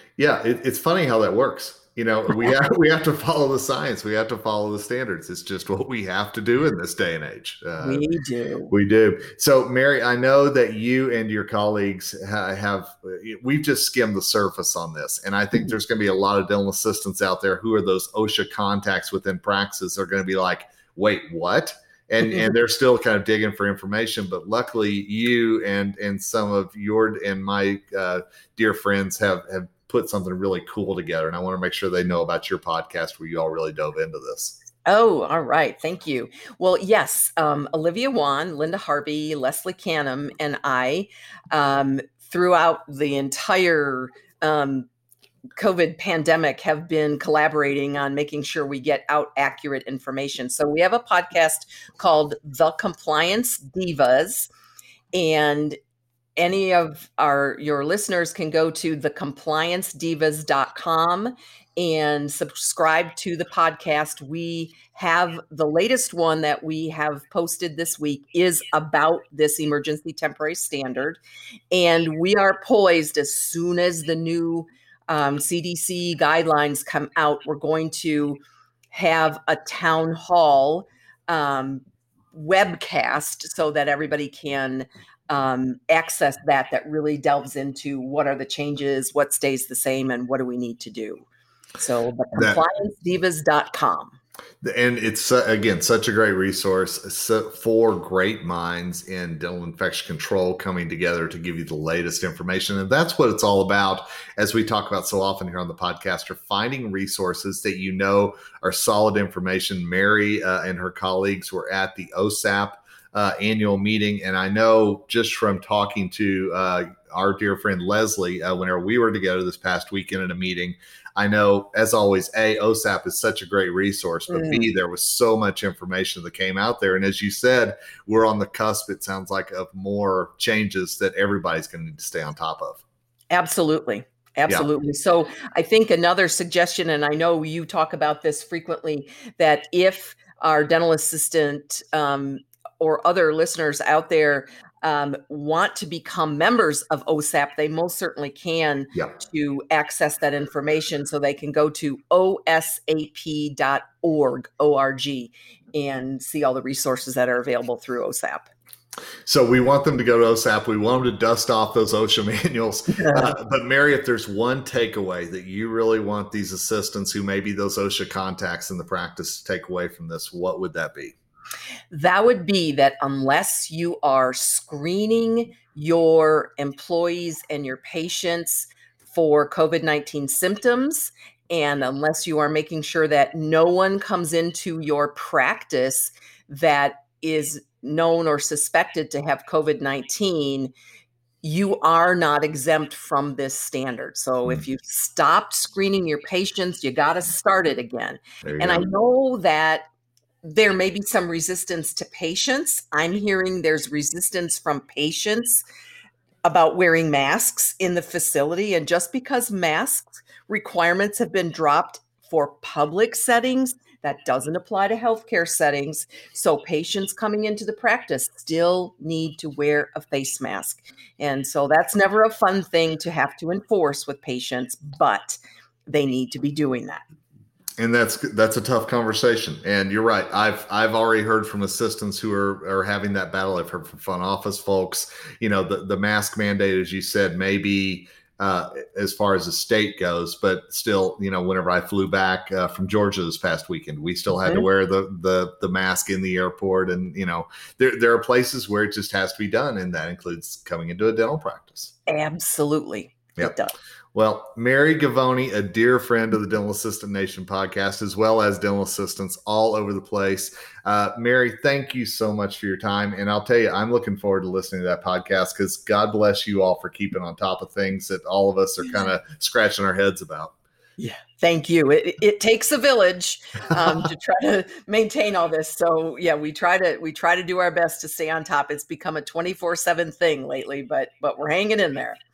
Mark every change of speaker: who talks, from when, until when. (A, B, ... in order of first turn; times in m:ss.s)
0:00.2-0:08.0 A
0:07.8-0:08.7 B
0:08.7-0:34.6 A
0:34.9-0:44.9 B
0:45.6-0:54.5 B
0:55.1-0:55.8 B
0:56.4-1:11.2 B
1:11.7-1:18.4 B
1:18.9-1:31.3 B
1:31.8-1:34.2 B
1:34.6-2:12.8 A
2:04.3-2:04.7 B
2:13.3-2:38.5 B
2:39.3-2:51.2 A
2:42.9-2:43.3 B
2:51.9-3:10.7 B
3:11.4-3:19.9 B
3:18.4-3:18.9 A
3:20.4-3:25.6 B
3:26.4-3:47.0 B
3:47.8-4:11.9 A
4:04.3-4:04.7 B
4:12.1-4:13.7 B
4:14.1-4:30.6 A
4:31.0-4:42.2 B